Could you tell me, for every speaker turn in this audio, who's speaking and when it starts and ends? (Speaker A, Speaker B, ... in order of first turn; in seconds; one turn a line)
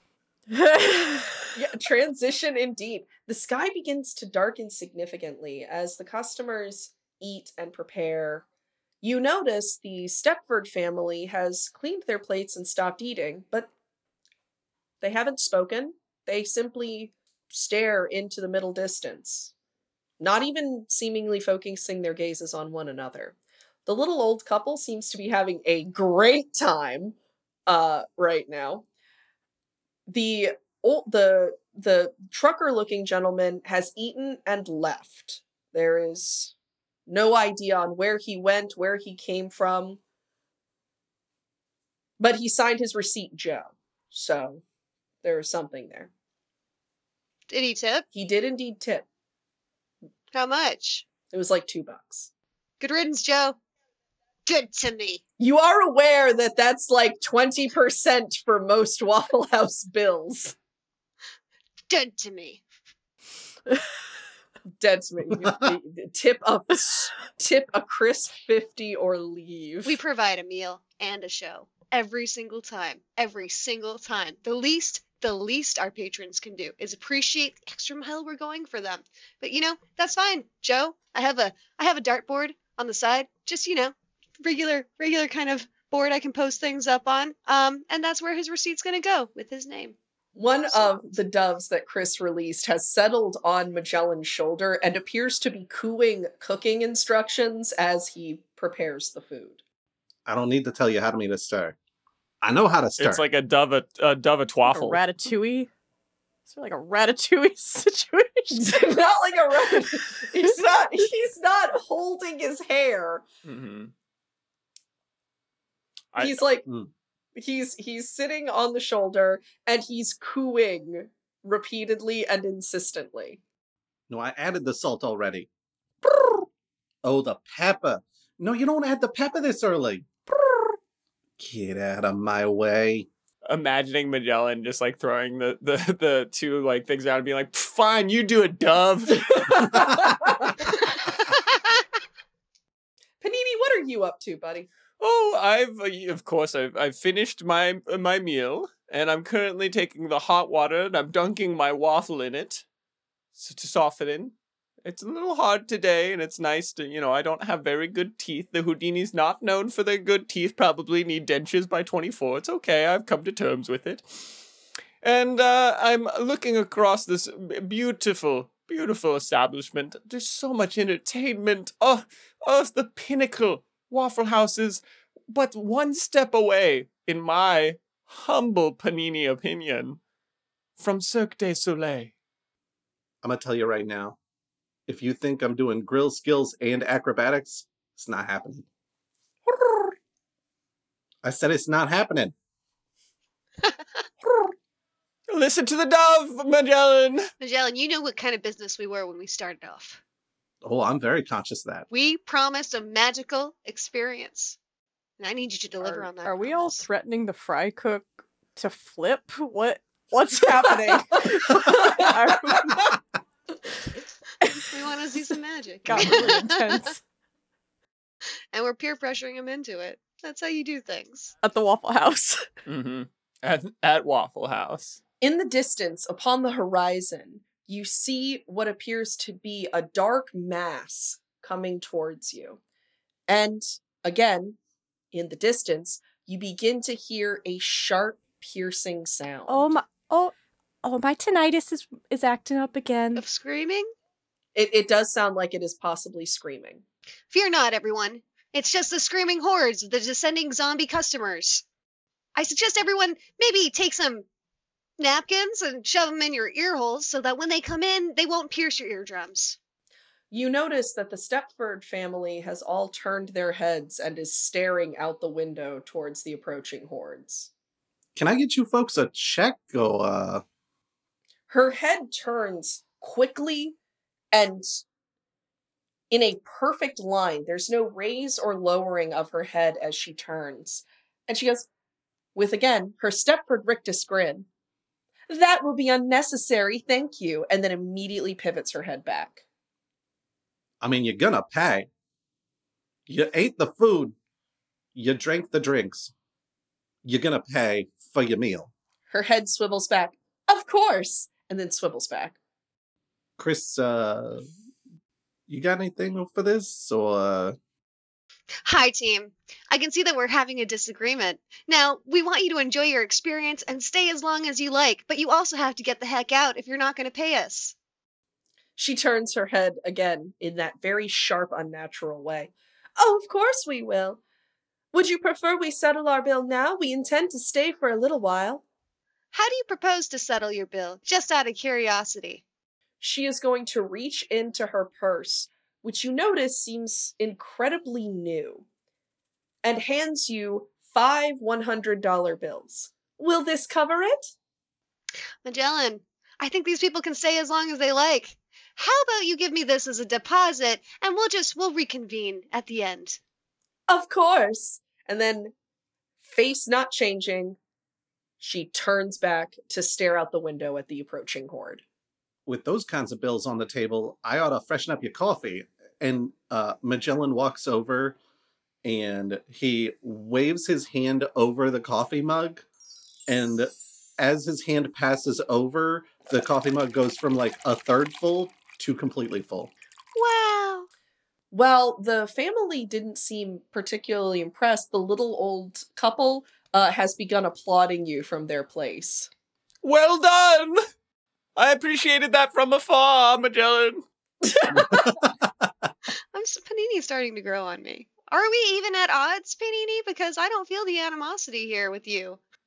Speaker A: 0.5-1.5
Speaker B: 1.5-8.4
Speaker B: 9.0-13.7
Speaker B: 15.0-19.5
Speaker B: 20.2-23.3
Speaker B: 23.9-27.1
Speaker B: 27.7-28.8
Speaker B: 30.1-36.5
Speaker B: 37.1-40.0
Speaker B: 42.2-44.6
Speaker B: 45.2-46.1
Speaker C: 47.5-48.0
Speaker B: 48.1-49.0
Speaker C: 50.3-51.1
Speaker B: 51.2-52.3
Speaker C: 52.8-53.6
Speaker C: 54.5-55.2
Speaker B: 55.4-60.5
Speaker C: 61.9-62.6
Speaker B: 64.8-70.0
Speaker C: 69.8-90.0
Speaker B: 90.3-99.6
Speaker D: 100.2-101.8
Speaker D: 102.4-103.2
Speaker E: 103.0-105.0
Speaker A: 104.6-105.7
Speaker A: 106.5-108.6
Speaker B: 108.5-113.2
Speaker E: 113.4-113.9
Speaker E: 116.1-116.4
Speaker B: 116.2-116.7
Speaker D: 116.7-116.9
Speaker B: 117.3-123.4
Speaker D: 124.1-125.5
Speaker B: 126.0-126.4
Speaker D: 127.0-130.1
Speaker D: 131.4-133.1
Speaker E: 133.5-139.9
Speaker B: 139.4-140.7
Speaker B: 143.2-144.7
Speaker E: 145.0-152.6
Speaker E: 153.3-164.4
Speaker E: 165.0-180.0
Speaker E: 180.8-182.1
Speaker D: 183.2-184.2
Speaker D: 184.9-188.7
Speaker D: 191.2-192.3
Speaker E: 195.3-197.3
Speaker C: 197.4-200.0
Speaker D: 200.6-201.9
Speaker C: 201.9-204.6
Speaker C: 205.2-206.9
Speaker A: 205.8-212.8
Speaker B: 211.8-212.9
Speaker C: 214.7-216.8
Speaker A: 215.8-217.0
Speaker B: 216.0-216.2
Speaker C: 218.5-221.3
Speaker A: 221.4-222.4
Speaker E: 222.7-225.0
Speaker B: 225.2-232.6
Speaker B: 233.3-234.6
Speaker B: 235.1-239.7
Speaker A: 239.5-240.3
Speaker A: 240.8-243.2
Speaker C: 243.2-243.9
Speaker B: 244.5-246.8
Speaker C: 247.3-251.6
Speaker C: 252.3-254.2
Speaker C: 255.0-259.6
Speaker B: 260.3-267.5
Speaker D: 268.1-270.4
Speaker B: 271.5-273.8
Speaker B: 274.3-274.8
Speaker B: 276.1-281.7
Speaker B: 282.3-284.5
Speaker B: 285.3-289.4
Speaker D: 290.8-291.9
Speaker D: 293.1-294.1
Speaker D: 294.9-296.1
Speaker D: 297.0-298.7
Speaker B: 299.1-302.4
Speaker D: 303.4-304.4
Speaker D: 305.5-307.6
Speaker C: 308.6-317.7
Speaker B: 318.8-324.2
Speaker B: 324.9-328.6
Speaker C: 329.3-332.4
Speaker B: 333.0-338.6
Speaker B: 339.6-344.3
Speaker C: 345.4-353.2
Speaker B: 353.9-355.5
Speaker B: 356.2-357.6
Speaker B: 358.4-361.8
Speaker D: 362.4-368.2
Speaker D: 368.8-372.6
Speaker D: 373.3-379.7
Speaker C: 380.1-380.9
Speaker B: 381.5-389.3
Speaker E: 389.8-390.8
Speaker E: 391.6-394.0
Speaker B: 394.6-395.1
Speaker D: 394.7-395.2
Speaker C: 396.3-402.4